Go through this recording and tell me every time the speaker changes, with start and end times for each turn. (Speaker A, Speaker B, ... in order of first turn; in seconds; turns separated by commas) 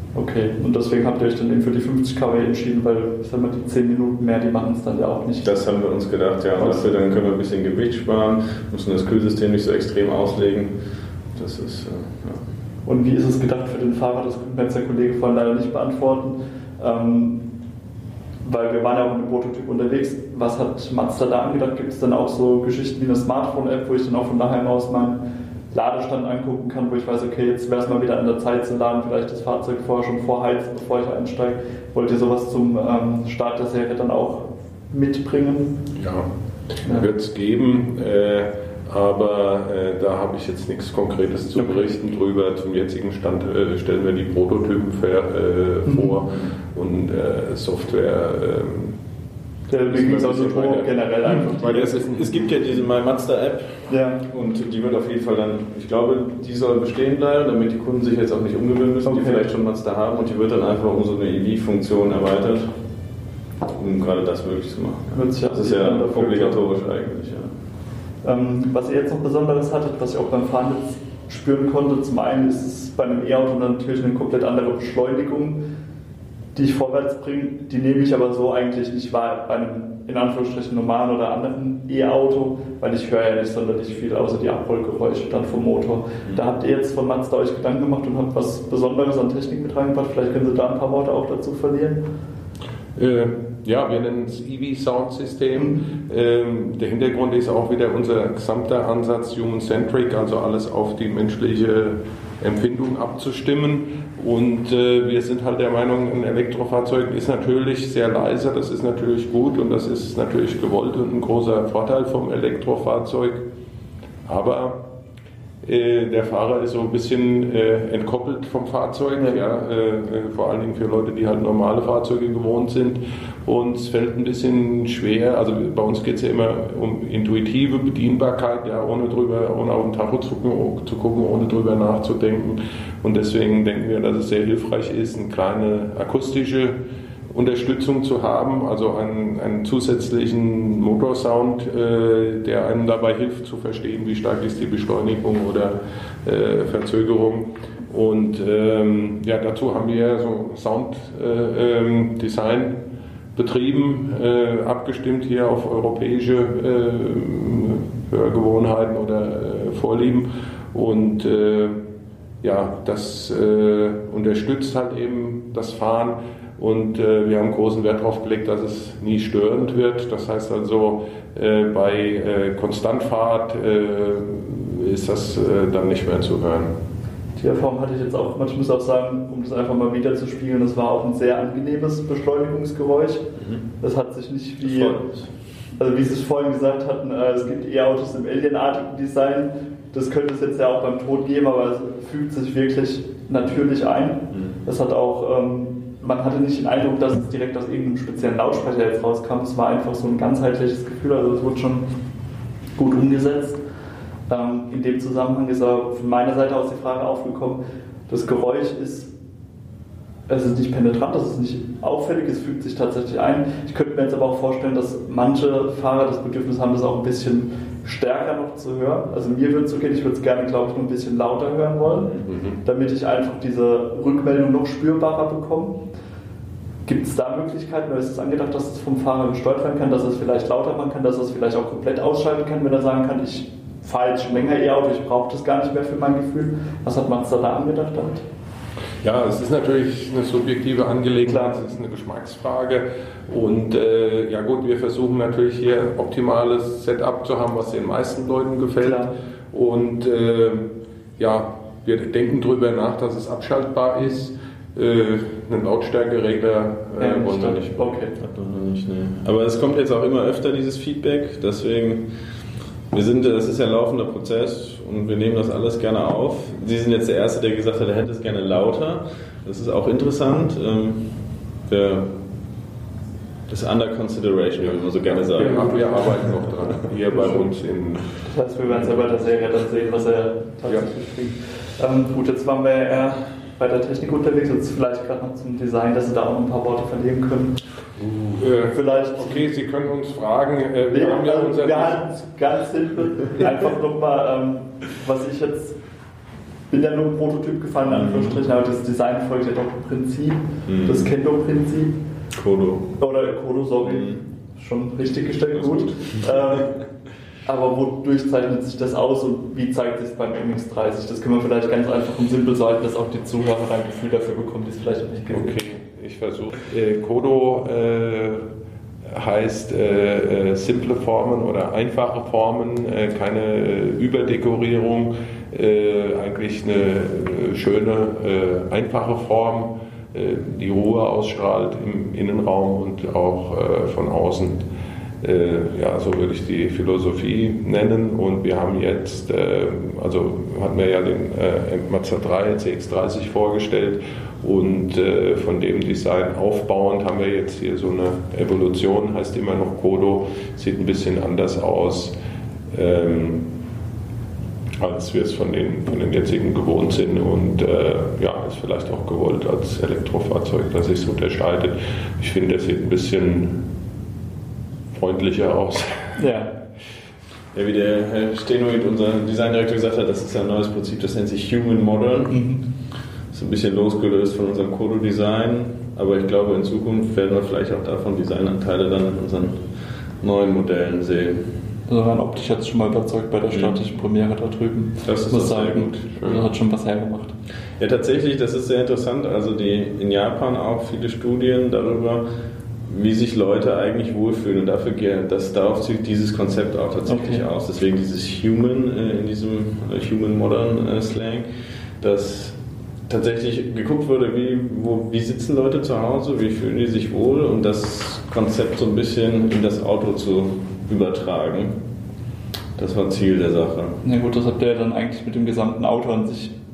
Speaker A: 0.1-5.5, Speaker B: 5.4-10.8, Speaker A: 6.6-6.8, Speaker B: 11.3-12.4, Speaker A: 12.9-17.5, Speaker A: 18.4-35.8, Speaker C: 36.0-49.0, Speaker A: 41.6-41.8, Speaker A: 45.9-46.2, Speaker A: 49.7-52.0, Speaker C: 49.9-52.7, Speaker B: 51.7-62.7, Speaker A: 53.9-54.2, Speaker A: 59.0-59.4, Speaker B: 63.7-67.5, Speaker A: 65.1-66.6, Speaker A: 68.2-75.6, Speaker A: 76.5-92.0, Speaker C: 93.0-113.4, Speaker A: 95.6-95.8, Speaker C: 114.3-114.8, Speaker C: 115.6-136.8, Speaker C: 137.3-152.8, Speaker C: 153.3-161.8, Speaker C: 162.4-176.7, Speaker A: 177.4-183.3, Speaker B: 183.4-183.6, Speaker A: 183.8-185.0, Speaker B: 184.6-185.3, Speaker A: 185.8-201.9, Speaker B: 194.3-194.6, Speaker A: 202.8-203.6, Speaker A: 204.3-209.1, Speaker A: 210.3-222.1, Speaker C: 222.3-222.6, Speaker A: 222.6-225.8, Speaker A: 226.9-238.2, Speaker C: 239.0-258.0, Speaker A: 241.3-241.6, Speaker A: 248.8-249.1, Speaker A: 257.0-258.1, Speaker B: 258.2-262.1, Speaker B: 262.9-272.1, Speaker B: 273.5-276.3, Speaker C: 274.7-278.2, Speaker A: 275.4-276.1, Speaker A: 278.2-287.6, Speaker C: 288.0-292.1, Speaker A: 288.7-289.4, Speaker A: 290.9-295.8, Speaker A: 296.7-302.0, Speaker B: 297.9-298.4, Speaker B: 300.7-301.1, Speaker B: 302.3-302.9, Speaker A: 303.0-306.7, Speaker B: 303.8-304.2, Speaker B: 305.5-306.7, Speaker A: 307.4-315.6, Speaker C: 315.3-318.5, Speaker C: 319.1-334.6, Speaker C: 335.2-352.1, Speaker C: 352.7-353.5, Speaker C: 354.8-363.6, Speaker C: 364.9-366.2, Speaker A: 366.2-366.5, Speaker B: 367.5-372.5, Speaker A: 372.3-372.7, Speaker B: 373.3-379.7, Speaker B: 380.2-381.5, Speaker A: 381.9-387.4, Speaker B: 383.5-383.8, Speaker B: 385.0-386.0, Speaker C: 386.1-386.4, Speaker B: 387.8-392.2, Speaker B: 392.9-401.5, Speaker A: 397.1-397.4, Speaker B: 402.0-411.8, Speaker B: 412.8-414.0, Speaker A: 414.0-416.5